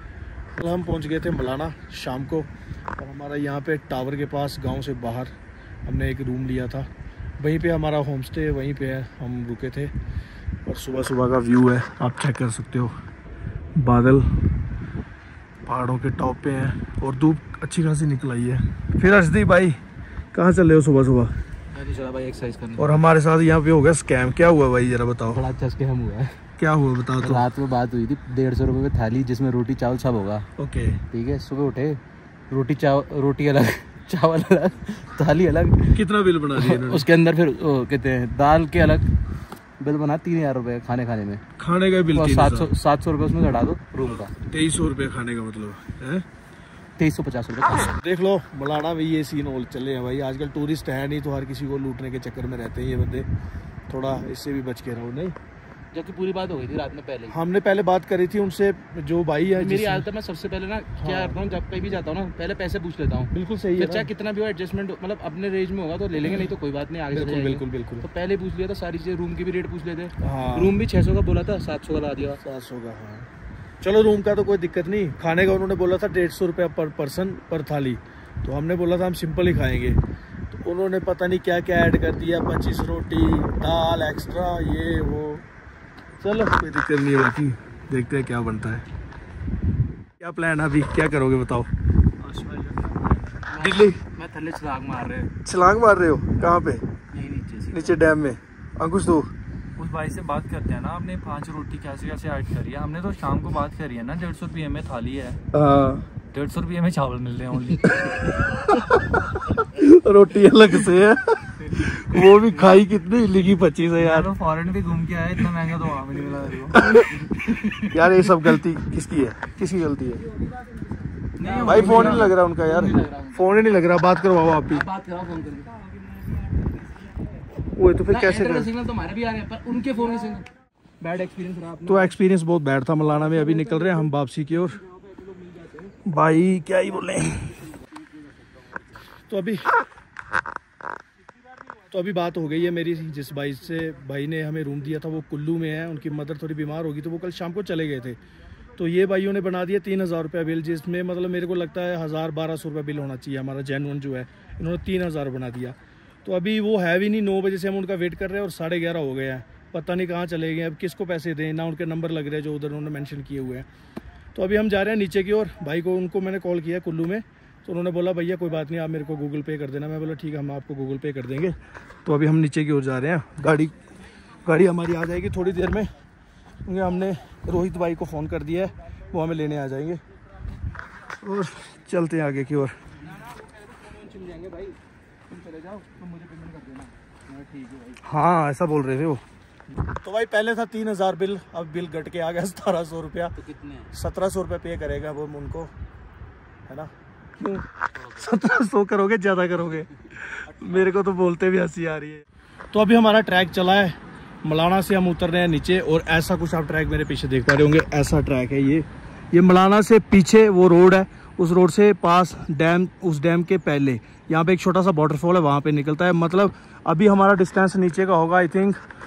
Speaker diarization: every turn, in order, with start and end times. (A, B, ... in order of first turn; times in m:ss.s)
0:00.5-0:05.3 A
0:05.8-0:06.9 A
0:07.4-0:09.9 A
0:10.6-0:13.0 A
0:13.8-0:14.3 A
0:15.6-0:19.8 A
0:20.3-0:21.3 A
0:21.7-0:22.9 B
0:22.8-0:25.4 A
0:25.3-0:26.4 B
0:26.6-0:27.5 A
0:27.2-0:30.5 B
0:30.6-0:31.0 A
0:31.1-0:36.0 B
0:35.9-0:37.1 A
0:36.6-0:39.0 B
0:39.8-0:41.4 B
0:41.6-0:42.7 A
0:42.2-0:44.3 B
0:44.4-0:46.2 A
0:47.0-0:48.0 B
0:48.0-0:53.3 A
0:53.9-0:55.4 A
0:55.9-0:57.4 B
0:57.3-1:00.1 A
0:59.5-1:12.4 B
1:01.0-1:01.3 A
1:03.3-1:04.1 A
1:07.1-1:08.1 A
1:10.2-1:10.8 A
1:12.4-1:13.3 A
1:13.8-1:20.0 A
1:20.5-1:25.4 A
1:26.2-1:28.8 A
1:30.2-1:31.7 A
1:32.4-1:34.0 A
1:33.5-1:35.3 B
1:35.4-1:36.8 A
1:37.1-1:38.0 B
1:37.7-1:39.3 A
1:39.8-1:45.4 C
1:45.5-1:46.1 A
1:46.3-1:48.2 C
1:48.0-1:54.3 A
1:54.0-1:57.8 C
1:56.8-2:00.2 A
2:01.4-2:03.6 B
2:01.4-2:02.3 C
2:01.6-2:04.9 A
2:04.7-2:05.8 B
2:07.8-2:08.7 A
2:08.1-2:10.5 B
2:11.0-2:12.2 B
2:11.9-2:14.8 A
2:13.2-2:14.1 B
2:14.8-2:15.9 B
2:16.0-2:17.6 A
2:17.7-2:18.0 B
2:19.3-2:19.8 A
2:21.9-2:28.2 A
2:28.8-2:43.7 A
2:44.4-2:53.8 A
2:54.4-2:55.9 A
2:56.6-3:00.0 A
3:01.2-3:02.8 A
3:03.0-3:08.0 B
3:08.0-3:09.2 A
3:10.0-3:13.3 A
3:13.4-3:13.9 B
3:13.9-3:15.7 A
3:16.7-3:38.8 A